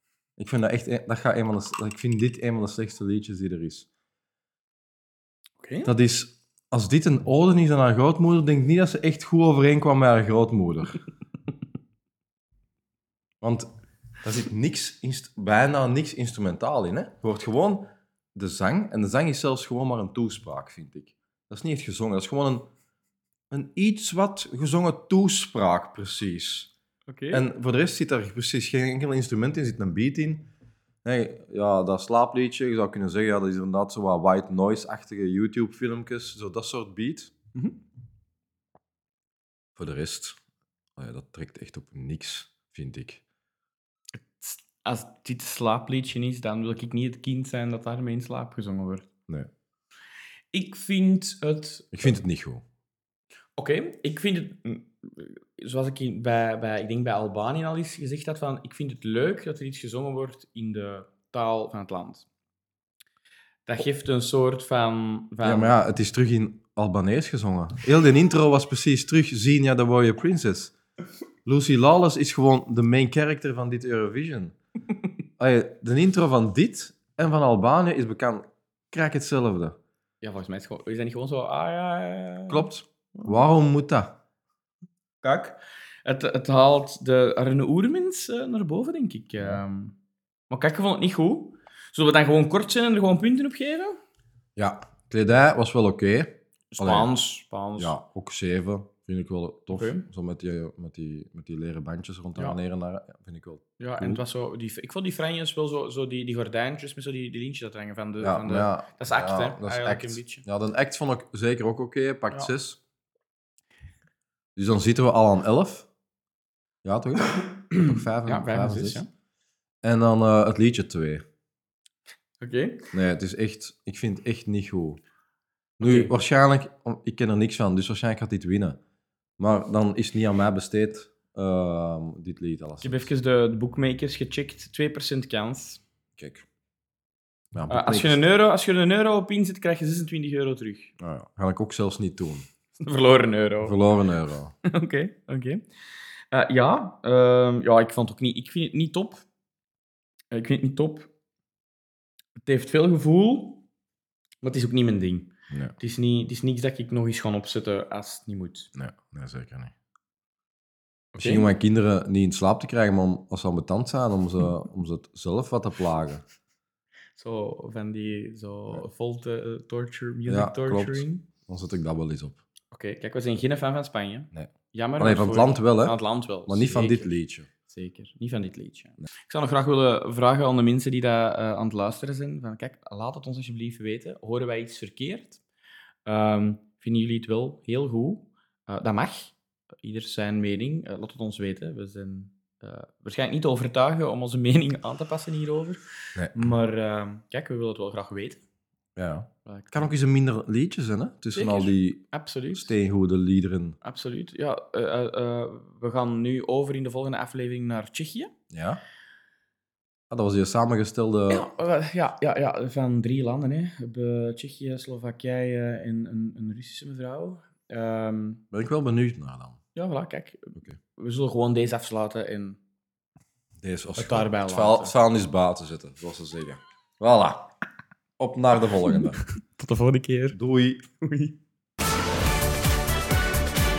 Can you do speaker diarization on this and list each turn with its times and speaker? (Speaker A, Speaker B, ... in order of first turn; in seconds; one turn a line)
Speaker A: 0.4-3.9
Speaker B: 5.6-5.9
Speaker A: 5.8-11.0
Speaker A: 13.4-13.7
Speaker A: 14.2-22.7
Speaker A: 23.5-26.7
Speaker B: 27.1-27.4
Speaker A: 27.3-30.5
Speaker A: 31.0-37.3
Speaker A: 39.8-40.4
Speaker A: 41.0-43.2
Speaker B: 44.3-49.1
Speaker B: 50.5-52.1
Speaker A: 51.9-52.6
Speaker B: 53.6-62.2
Speaker B: 63.6-65.8
Speaker A: 65.4-70.7
Speaker A: 71.4-74.6
Speaker A: 75.4-79.8
Speaker B: 80.2-83.4
Speaker A: 82.5-84.1
Speaker B: 85.2-89.9
Speaker A: 89.4-89.6
Speaker B: 90.5-94.0
Speaker A: 94.5-97.1
Speaker B: 96.7-98.0
Speaker A: 97.8-104.2
Speaker B: 99.7-100.1
Speaker B: 103.8-110.5
Speaker A: 108.2-112.8
Speaker A: 114.5-115.9
Speaker A: 116.8-119.0
Speaker B: 117.7-119.1
Speaker A: 119.8-121.2
Speaker B: 122.4-122.9
Speaker A: 122.9-125.0
Speaker A: 125.8-128.8
Speaker B: 125.8-126.1
Speaker A: 129.4-133.1
Speaker B: 132.8-135.8
Speaker A: 136.2-136.4
Speaker A: 137.5-138.2
Speaker B: 137.7-140.9
Speaker A: 141.0-142.5
Speaker B: 142.8-143.8
Speaker A: 143.6-144.5
Speaker B: 144.6-145.6
Speaker B: 146.3-149.2
Speaker B: 150.3-151.1
Speaker B: 152.4-153.6
Speaker B: 154.4-158.7
Speaker A: 158.7-159.7
Speaker B: 161.1-161.5
Speaker A: 161.2-166.2
Speaker B: 167.2-171.3
Speaker A: 170.3-172.4
Speaker B: 172.7-177.1
Speaker A: 174.3-177.5
Speaker B: 177.7-185.4
Speaker B: 186.1-195.8
Speaker A: 196.2-196.4
Speaker B: 196.3-198.4
Speaker A: 198.9-203.8
Speaker B: 199.4-199.9
Speaker B: 201.3-202.7
Speaker B: 203.8-208.3
Speaker A: 208.5-208.8
Speaker A: 210.1-211.5
Speaker B: 211.3-218.4
Speaker A: 218.5-219.6
Speaker B: 219.7-222.6
Speaker A: 223.6-227.5
Speaker B: 224.0-224.9
Speaker A: 228.2-229.2
Speaker B: 228.9-230.4
Speaker A: 230.3-230.8
Speaker B: 231.0-231.4